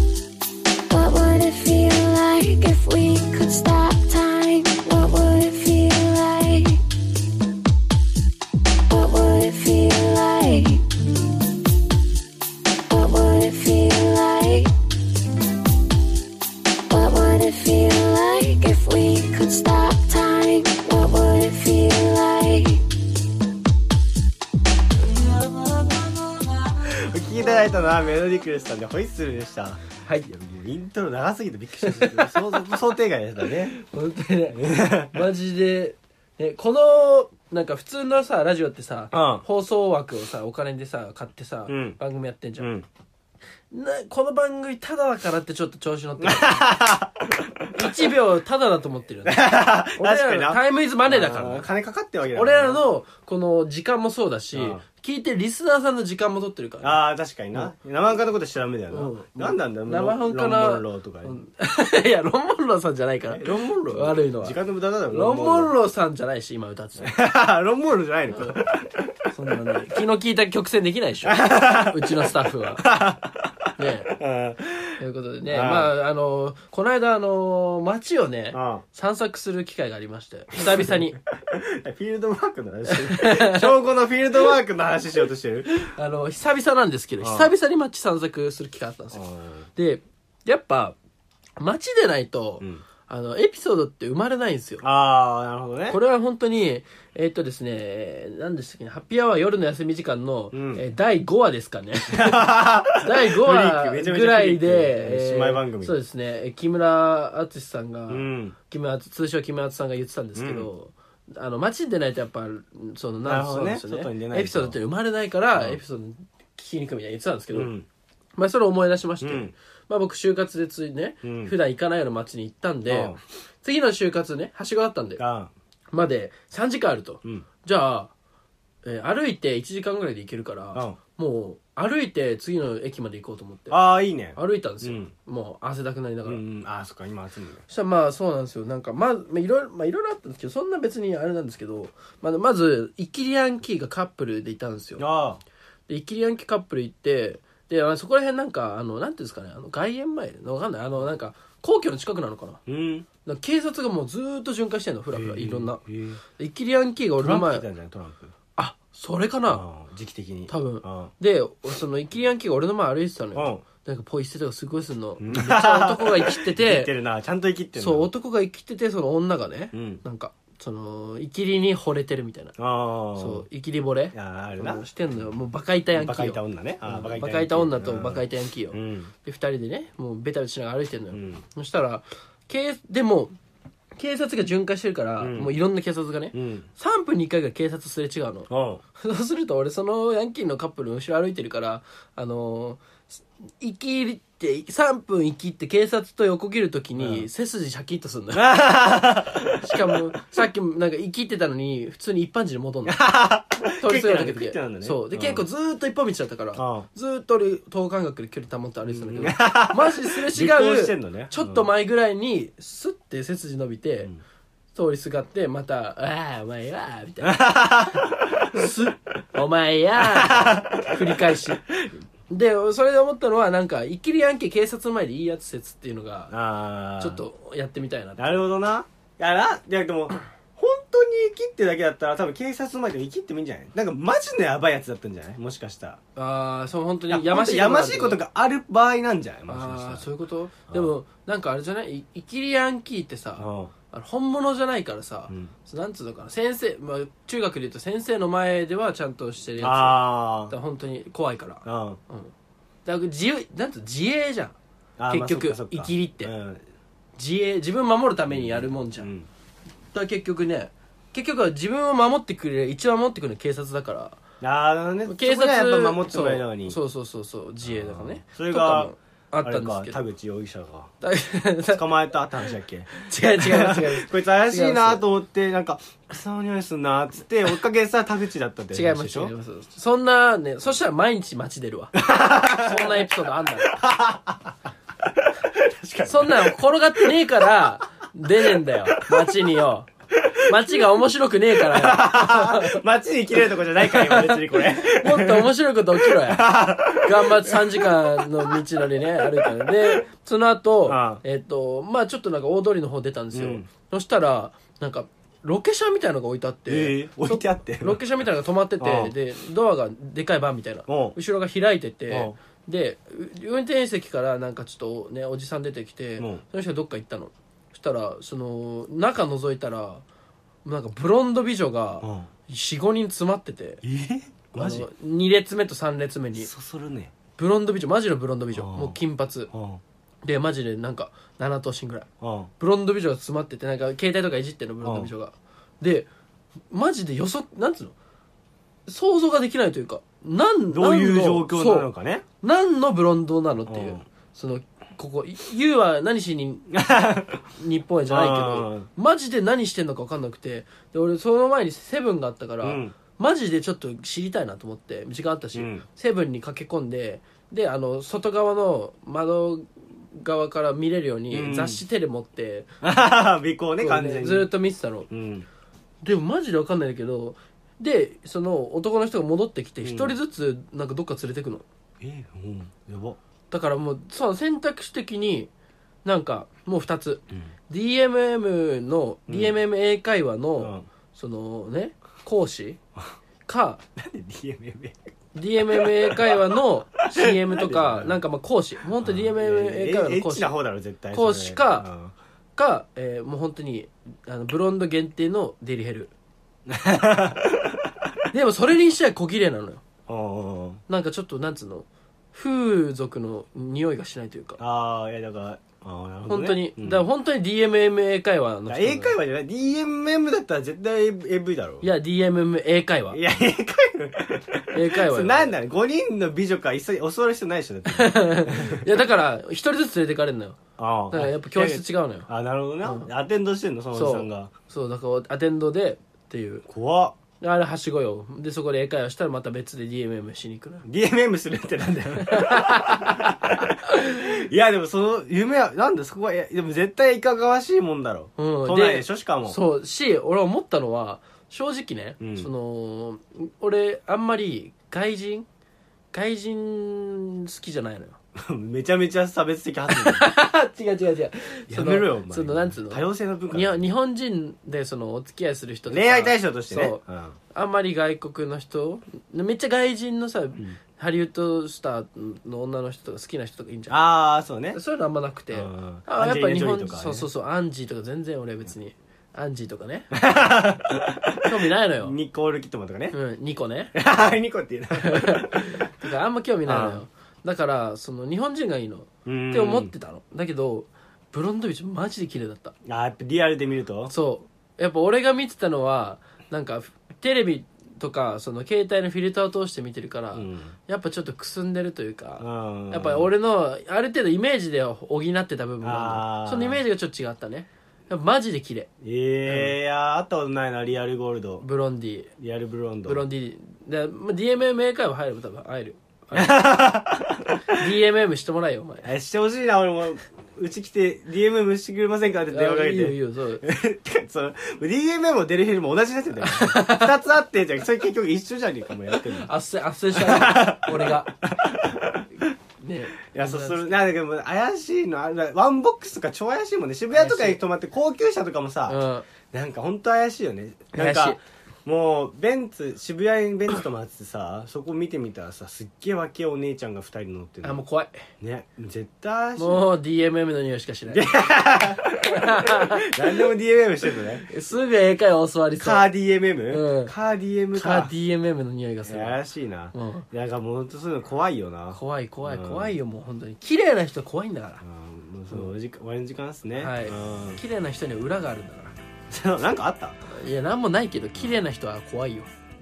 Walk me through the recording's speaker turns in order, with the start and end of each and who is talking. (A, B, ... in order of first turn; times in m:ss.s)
0:00.9-0:06.8 A
0:08.9-0:10.8 A
0:12.9-0:14.7 A
0:16.9-0:22.8 A
0:26.9-0:33.8 B
0:31.8-0:32.8 C
0:33.4-0:42.7 C
0:34.5-0:35.2 B
0:39.1-0:39.4 B
0:41.7-0:42.0 B
0:42.6-0:42.9 B
0:43.7-0:46.7 C
0:46.2-0:48.0 B
0:47.7-0:51.7 C
0:49.2-0:52.8 B
0:52.3-0:57.0 C
0:54.5-0:54.8 B
0:56.8-1:01.4 B
0:58.9-1:04.6 C
1:03.3-1:05.7 B
1:05.1-1:07.1 C
1:07.0-1:09.1 B
1:08.3-1:08.6 C
1:09.3-1:12.8 C
1:11.2-1:15.0 B
1:13.8-1:14.1 C
1:15.0-1:21.2 C
1:15.5-1:15.9 B
1:18.5-1:18.8 B
1:20.6-1:25.8 B
1:22.9-1:23.7 C
1:25.8-1:29.2 C
1:27.2-1:27.5 B
1:29.1-1:29.7 B
1:29.8-1:31.0 C
1:31.6-1:34.8 C
1:34.8-1:36.0 B
1:35.9-1:57.7 C
1:40.5-1:40.8 B
1:42.1-1:46.0 B
1:48.1-1:48.6 B
1:50.4-1:50.7 B
1:53.2-1:54.8 B
1:57.5-1:57.9 B
1:58.4-2:05.2 C
1:59.2-1:59.5 B
2:01.2-2:01.5 B
2:02.9-2:03.2 B
2:05.2-2:05.5 B
2:05.9-2:08.1 C
2:08.8-2:13.8 C
2:13.7-2:15.1 B
2:14.4-2:16.4 C
2:16.2-2:17.6 B
2:17.7-2:25.0 C
2:25.0-2:25.4 B
2:25.9-2:32.6 C
2:32.6-2:33.1 B
2:33.2-2:37.6 C
2:35.1-2:36.2 B
2:37.2-2:38.3 B
2:38.6-2:39.6 C
2:39.5-2:41.1 B
2:40.5-2:46.9 C
2:43.4-2:43.6 B
2:45.2-2:48.1 B
2:47.8-2:52.6 C
2:49.7-2:50.0 B
2:52.6-2:53.4 B
2:53.1-3:03.4 C
2:54.1-2:54.9 B
2:55.9-2:59.1 B
3:01.1-3:01.4 B
3:03.9-3:18.6 C
3:05.2-3:05.5 B
3:06.3-3:06.7 B
3:08.5-3:08.8 B
3:17.0-3:17.3 B
3:18.3-3:20.0 B
3:19.4-3:23.0 C
3:22.9-3:25.4 B
3:23.8-3:34.1 C
3:26.6-3:26.9 B
3:28.9-3:31.7 B
3:34.7-3:41.6 C
3:37.2-3:38.7 B
3:40.0-3:42.0 B
3:42.3-3:46.3 C
3:46.3-3:47.2 B
3:47.0-3:48.4 C
3:48.2-3:56.0 B
3:56.2-3:58.2 C
3:57.1-4:00.1 B
3:59.5-4:12.3 C
4:03.4-4:03.7 B
4:09.6-4:10.6 B
4:11.6-4:12.0 B
4:12.8-4:14.6 C
4:15.0-4:16.6 B
4:15.1-4:16.3 C
4:17.2-4:19.1 C
4:18.3-4:19.3 B
4:19.9-4:24.2 C
4:24.4-4:26.8 B
4:25.1-4:30.0 C
4:27.6-4:30.9 B
4:31.0-4:31.8 C
4:31.7-4:39.3 B
4:32.9-4:35.0 C
4:38.7-4:43.8 C
4:42.0-4:44.5 B
4:45.0-4:47.5 B
4:46.0-4:49.9 C
4:48.3-4:49.4 B
4:50.2-4:50.8 B
4:50.4-4:52.8 C
4:51.6-4:58.6 B
4:53.8-5:20.0 C
4:59.3-5:00.0 B
5:00.9-5:01.2 B
5:03.3-5:03.7 B
5:06.7-5:08.0 B
5:08.8-5:09.1 B
5:10.9-5:11.2 B
5:12.1-5:12.4 B
5:20.6-5:23.8 C
5:22.0-5:22.3 B
5:23.8-5:24.9 B
5:24.6-5:26.5 C
5:26.4-5:27.1 B
5:27.4-5:29.5 C
5:28.6-5:29.0 B
5:29.5-5:29.8 B
5:30.2-5:32.1 C
5:32.2-5:32.5 B
5:32.6-5:36.1 C
5:34.8-5:35.1 B
5:36.7-5:37.9 C
5:38.9-5:41.9 C
5:40.7-5:42.2 B
5:42.4-5:46.7 C
5:43.7-5:44.1 B
5:46.7-5:47.4 B
5:47.6-6:02.7 C
5:48.1-5:48.9 B
5:52.6-5:52.9 B
5:55.6-5:55.8 B
6:01.3-6:01.8 B
6:02.8-6:04.5 B
6:03.8-6:05.1 C
6:05.1-6:05.4 B
6:06.0-6:11.6 C
6:09.8-6:10.2 B
6:12.0-6:13.2 B
6:13.5-6:15.5 C
6:16.0-6:22.8 C
6:19.3-6:19.6 B
6:20.6-6:20.9 B
6:23.4-6:23.8 C
6:24.0-6:25.1 B
6:25.4-6:30.5 C
6:25.6-6:28.2 B
6:29.0-6:32.1 B
6:31.1-6:31.9 C
6:32.6-6:36.1 C
6:36.7-6:37.9 B
6:38.3-6:39.8 C
6:40.1-6:40.8 B
6:40.9-6:44.6 C
6:44.6-6:47.0 B
6:46.3-6:49.2 C
6:48.7-6:51.9 B
6:51.8-6:53.2 C
6:53.1-6:58.8 B
6:54.7-6:55.6 C
6:57.9-7:02.2 C
7:00.8-7:04.5 B
7:02.8-7:03.1 C
7:03.9-7:06.6 C
7:06.7-7:07.1 B
7:07.4-7:10.9 C
7:10.8-7:19.6 B
7:12.2-7:14.2 C
7:18.4-7:25.5 C
7:22.2-7:22.5 B
7:26.1-7:28.2 C
7:28.4-7:30.3 B
7:29.9-7:44.0 C
7:31.7-7:33.9 B
7:35.9-7:37.4 B
7:43.9-7:44.8 B
7:44.7-7:50.2 C
7:45.5-7:47.3 B
7:50.1-7:53.2 B
7:51.4-7:52.2 C
7:53.1-7:53.9 C
7:53.9-7:55.9 B
7:54.9-8:02.7 C
7:56.6-7:57.0 B
7:59.2-7:59.9 B
8:02.9-8:04.1 B
8:04.1-8:18.9 C
8:10.3-8:10.7 B
8:12.4-8:13.3 B
8:15.8-8:16.8 B
8:19.0-8:21.6 B
8:19.4-8:19.8 C
8:21.6-8:22.3 C
8:22.4-8:23.2 B
8:23.1-8:26.6 C
8:26.3-8:27.8 B
8:27.7-8:29.1 C
8:29.0-8:39.5 B
8:32.5-8:33.6 C
8:36.4-8:37.2 C
8:39.1-8:41.3 C
8:40.1-8:42.5 B
8:42.8-8:43.9 C
8:43.2-8:49.0 B
8:47.1-8:47.6 C
8:48.9-8:49.3 C
8:49.5-8:57.8 B
8:51.0-8:51.4 C
8:57.6-8:58.2 C
8:58.4-8:59.9 B
8:59.6-9:01.3 C
9:01.1-9:04.5 B
9:02.2-9:03.5 C
9:04.5-9:06.1 C
9:05.8-9:08.1 B
9:06.7-9:07.1 C
9:07.7-9:09.4 C
9:09.1-9:12.9 B
9:09.9-9:10.2 C
9:11.9-9:14.8 C
9:14.8-9:17.6 B
9:16.8-9:19.0 C
9:19.3-9:20.2 B
9:20.2-9:22.5 C